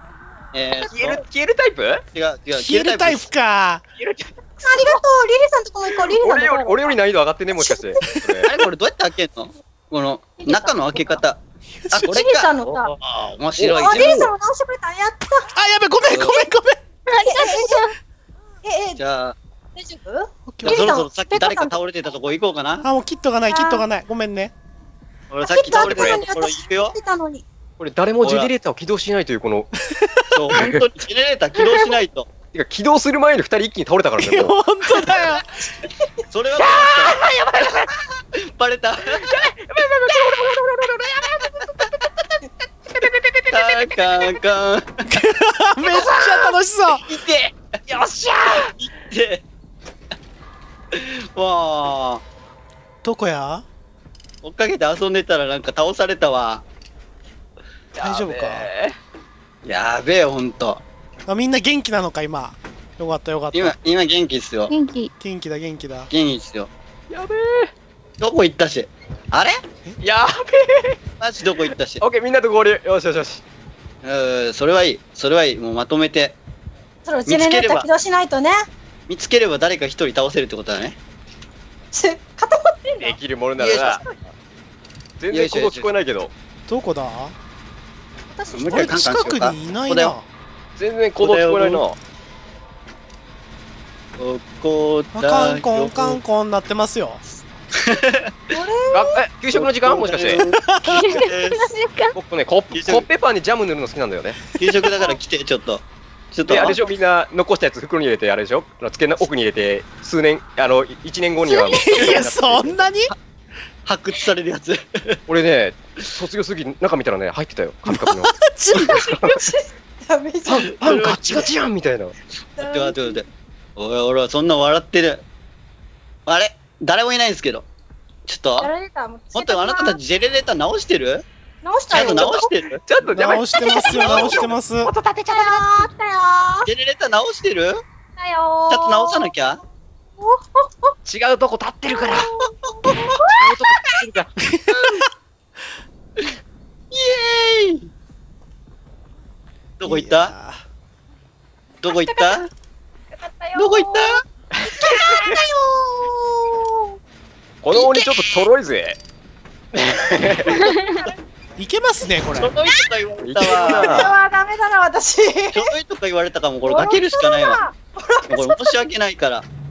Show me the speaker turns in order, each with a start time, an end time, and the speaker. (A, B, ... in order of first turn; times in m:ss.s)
0:00.5-0:01.2 A
0:00.8-0:02.0 B
0:02.1-0:03.2 A
0:02.6-0:03.8 C
0:04.0-0:05.0 B
0:04.6-0:07.0 D
0:06.0-0:08.5 B
0:07.5-0:08.0 D
0:08.4-0:14.3 A
0:10.4-0:11.0 D
0:12.0-0:12.9 D
0:12.6-0:14.3 B
0:13.7-0:15.5 D
0:15.6-0:16.8 C
0:16.0-0:16.4 A
0:16.1-0:16.5 D
0:17.1-0:17.9 E
0:17.1-0:17.9 D
0:18.6-0:19.0 D
0:19.0-0:19.4 A
0:19.7-0:21.8 D
0:20.5-0:20.9 C
0:20.6-0:22.9 A
0:22.8-0:24.5 C
0:23.5-0:23.8 D
0:25.3-0:26.9 A
0:25.4-0:27.4 D
0:25.8-0:26.2 B
0:27.8-0:29.7 B
0:28.2-0:28.5 A
0:29.9-0:30.4 C
0:30.3-0:32.3 A
0:30.5-0:30.8 B
0:32.5-0:34.6 B
0:34.2-0:35.4 C
0:35.8-0:36.1 D
0:36.3-0:39.4 A
0:36.6-0:38.0 B
0:39.1-0:44.4 B
0:43.5-0:45.1 A
0:45.1-0:47.0 C
0:45.8-0:48.7 B
0:48.8-0:49.4 A
0:50.9-0:52.2 A
0:53.0-0:53.6 C
0:54.4-0:56.6 A
0:57.9-0:58.9 B
0:58.0-0:58.7 C
0:59.6-1:00.8 A
1:01.3-1:03.7 C
1:03.5-1:04.7 A
1:04.7-1:05.1 E
1:05.2-1:06.1 C
1:06.1-1:06.7 A
1:07.1-1:07.7 B
1:08.2-1:09.6 A
1:10.0-1:11.0 B
1:11.2-1:12.0 A
1:12.0-1:13.4 B
1:14.0-1:16.4 A
1:17.0-1:18.7 D
1:17.2-1:17.9 A
1:19.1-1:21.0 A
1:21.9-1:24.2 D
1:23.0-1:24.0 B
1:23.6-1:24.0 A
1:25.2-1:26.3 B
1:25.3-1:25.9 A
1:26.7-1:27.3 C
1:28.3-1:29.2 D
1:28.5-1:30.1 A
1:28.7-1:30.3 C
1:30.8-1:32.0 B
1:31.2-1:31.8 A
1:34.2-1:36.2 A
1:35.1-1:37.2 C
1:37.7-1:38.3 A
1:38.5-1:39.2 D
1:38.9-1:40.4 B
1:39.5-1:41.7 A
1:40.6-1:41.1 C
1:40.9-1:42.2 E
1:42.2-1:44.4 B
1:42.7-1:43.1 A
1:44.6-1:46.8 A
1:46.4-1:52.8 B
1:51.6-1:52.0 E
1:51.6-1:53.1 C
1:53.8-1:55.2 A
1:55.3-1:59.4 B
1:57.9-1:59.0 C
1:58.8-2:00.7 D
2:00.4-2:02.1 B
2:00.7-2:01.5 A
2:02.6-2:03.2 D
2:02.6-2:05.2 A
2:06.2-2:07.7 A
2:08.2-2:08.7 A
2:08.6-2:10.0 D
2:09.3-2:11.2 A
2:11.6-2:12.5 D
2:11.9-2:12.8 A
2:12.0-2:15.9 B
2:13.1-2:14.9 C
2:13.6-2:14.2 D
2:14.0-2:14.4 A
2:15.3-2:16.7 D
2:16.6-2:17.8 A
2:18.2-2:19.3 D
2:18.7-2:19.6 A
2:20.2-2:20.9 D
2:21.0-2:22.3 B
2:21.9-2:23.5 D
2:22.4-2:23.2 A
2:23.3-2:24.3 B
2:24.4-2:25.1 C
2:26.9-2:27.9 A
2:29.8-2:30.3 A
2:29.8-2:30.6 C
2:31.8-2:32.5 A
2:31.8-2:32.4 D
2:33.1-2:37.0 D
2:33.6-2:34.2 A
2:34.5-2:35.4 B
2:37.6-2:39.0 B
2:37.7-2:38.4 D
2:39.7-2:40.6 B
2:39.8-2:41.1 D
2:40.6-2:41.0 E
2:41.6-2:42.5 C
2:42.4-2:44.1 A
2:43.2-2:44.2 B
2:43.4-2:45.7 D
2:45.5-2:47.6 A
2:46.6-2:48.8 D
2:48.3-2:49.5 A